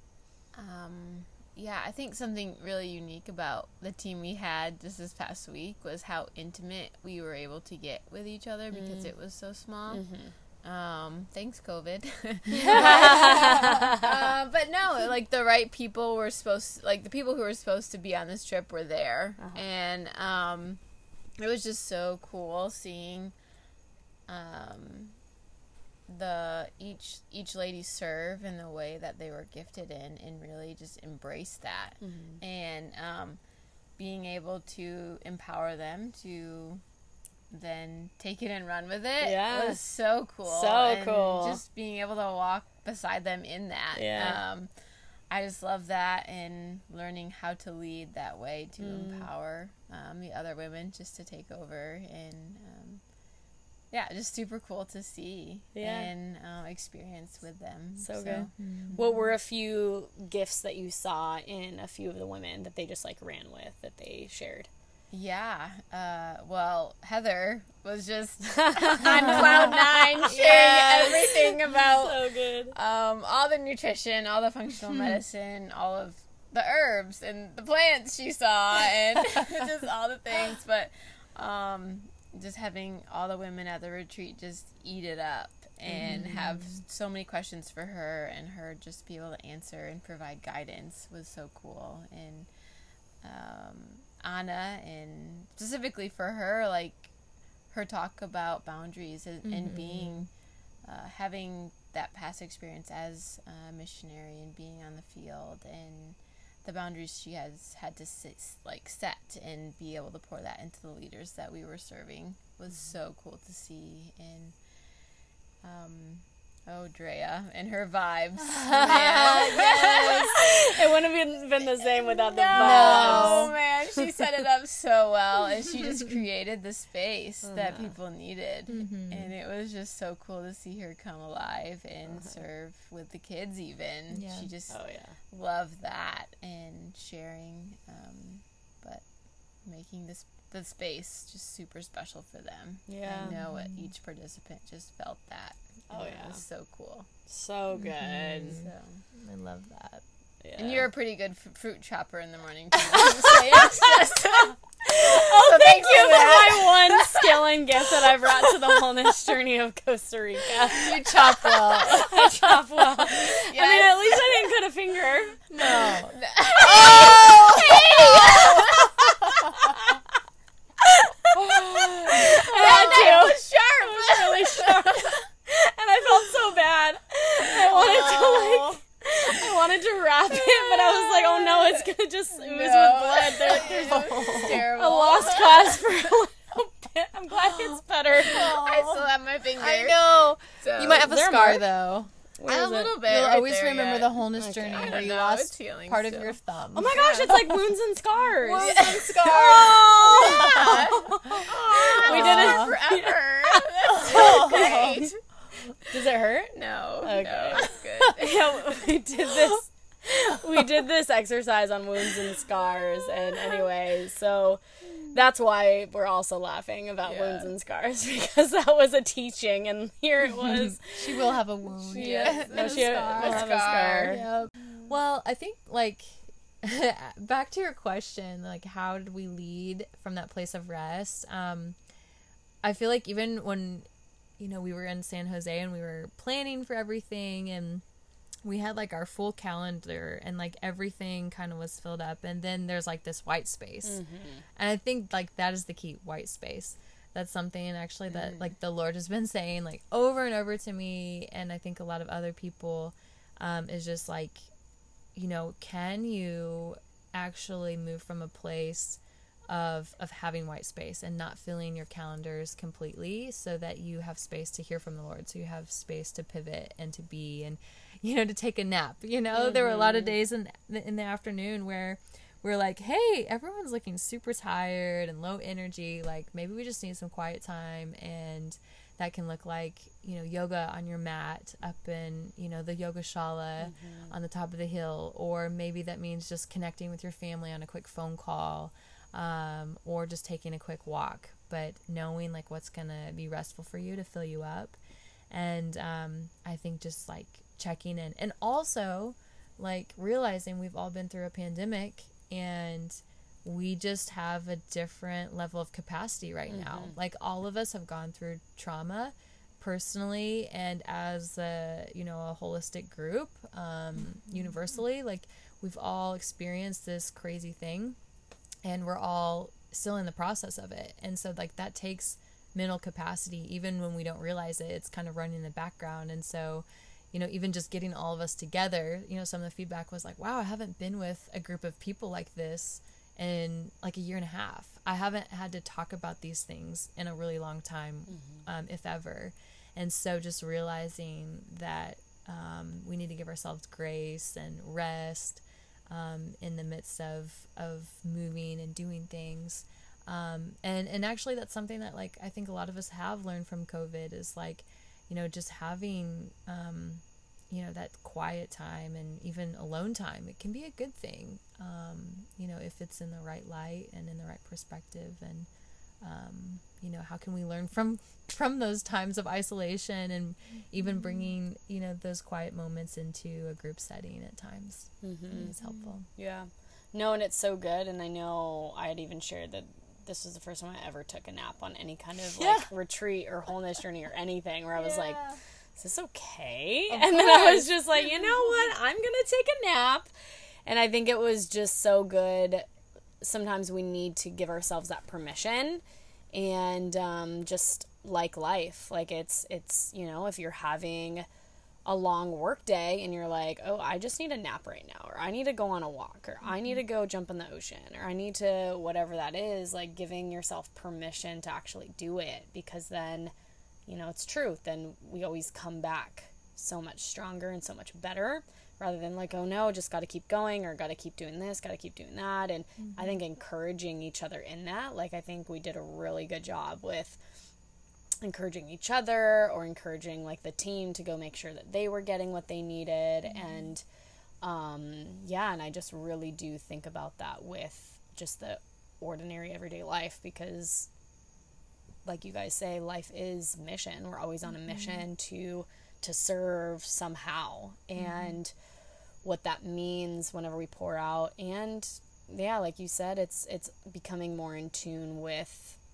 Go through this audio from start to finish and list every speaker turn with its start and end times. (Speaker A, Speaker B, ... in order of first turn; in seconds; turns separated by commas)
Speaker A: 0.5-10.1, Speaker B: 8.7-9.1, Speaker B: 9.9-10.3, Speaker A: 10.6-20.8, Speaker B: 12.5-14.3, Speaker C: 12.7-13.5, Speaker A: 21.4-23.3, Speaker A: 24.3-25.2, Speaker A: 26.1-33.4, Speaker B: 32.0-32.4, Speaker A: 34.0-36.8, Speaker A: 37.5-44.7, Speaker B: 39.2-39.8, Speaker B: 40.5-41.6, Speaker B: 43.9-44.4, Speaker A: 45.3-53.0, Speaker B: 48.8-49.3, Speaker A: 53.9-59.3, Speaker B: 55.7-56.1, Speaker B: 58.0-64.7, Speaker C: 58.6-59.0, Speaker A: 65.1-92.5, Speaker B: 68.5-72.7, Speaker C: 69.2-69.6, Speaker C: 70.2-71.2, Speaker C: 74.9-75.2, Speaker C: 85.9-86.7, Speaker A: 93.2-97.1, Speaker A: 97.7-100.3, Speaker C: 99.4-100.3, Speaker A: 100.8-114.5, Speaker A: 115.6-121.0, Speaker C: 118.4-120.3, Speaker B: 118.8-123.5, Speaker A: 121.6-134.8, Speaker C: 122.5-123.5, Speaker B: 127.4-127.9, Speaker C: 128.7-129.3, Speaker B: 132.1-132.3, Speaker C: 134.1-134.5, Speaker B: 134.7-135.2, Speaker A: 135.3-139.0, Speaker A: 139.6-147.1, Speaker B: 142.9-143.3, Speaker C: 143.3-143.9, Speaker B: 145.9-146.4, Speaker B: 147.3-148.6, Speaker C: 147.7-150.0, Speaker A: 148.1-149.0, Speaker B: 150.4-150.9, Speaker A: 150.6-157.4, Speaker B: 152.9-165.4, Speaker A: 160.7-162.1, Speaker C: 160.8-163.1, Speaker A: 163.2-164.5, Speaker C: 165.5-168.7, Speaker A: 165.6-169.7, Speaker B: 166.8-170.0, Speaker B: 170.8-188.6, Speaker C: 171.6-173.2, Speaker A: 172.1-175.2, Speaker A: 177.5-178.8, Speaker A: 180.3-186.1, Speaker C: 183.5-184.6, Speaker A: 188.2-191.1, Speaker C: 188.3-189.0, Speaker C: 189.6-197.6, Speaker B: 190.9-191.6, Speaker A: 192.4-196.3, Speaker B: 194.3-195.1, Speaker B: 196.7-205.1, Speaker C: 198.4-202.8, Speaker A: 198.5-205.2, Speaker C: 204.1-204.6, Speaker B: 205.7-221.4, Speaker A: 206.5-209.4, Speaker A: 217.0-217.5, Speaker C: 220.4-231.8, Speaker B: 221.9-224.2, Speaker A: 221.9-224.3, Speaker C: 232.6-233.9, Speaker C: 234.4-237.8, Speaker C: 238.4-244.0, Speaker B: 243.8-244.4, Speaker C: 244.6-254.5, Speaker A: 248.1-248.5, Speaker C: 255.1-294.8, Speaker B: 269.3-270.1, Speaker B: 283.6-284.1, Speaker C: 295.3-318.0, Speaker B: 306.5-307.0, Speaker C: 318.6-365.5, Speaker B: 338.1-338.4, Speaker C: 366.0-376.1, Speaker B: 375.0-375.5, Speaker B: 376.1-385.2, Speaker C: 382.4-382.7, Speaker C: 384.8-385.4, Speaker B: 385.8-390.1, Speaker C: 386.9-388.5, Speaker B: 390.6-392.7, Speaker B: 393.2-401.2, Speaker B: 401.9-413.3, Speaker B: 413.9-427.2, Speaker B: 428.2-433.8, Speaker C: 433.4-433.6, Speaker B: 434.4-440.9, Speaker B: 442.0-448.5, Speaker C: 444.7-445.0, Speaker C: 448.0-448.4, Speaker B: 449.2-455.8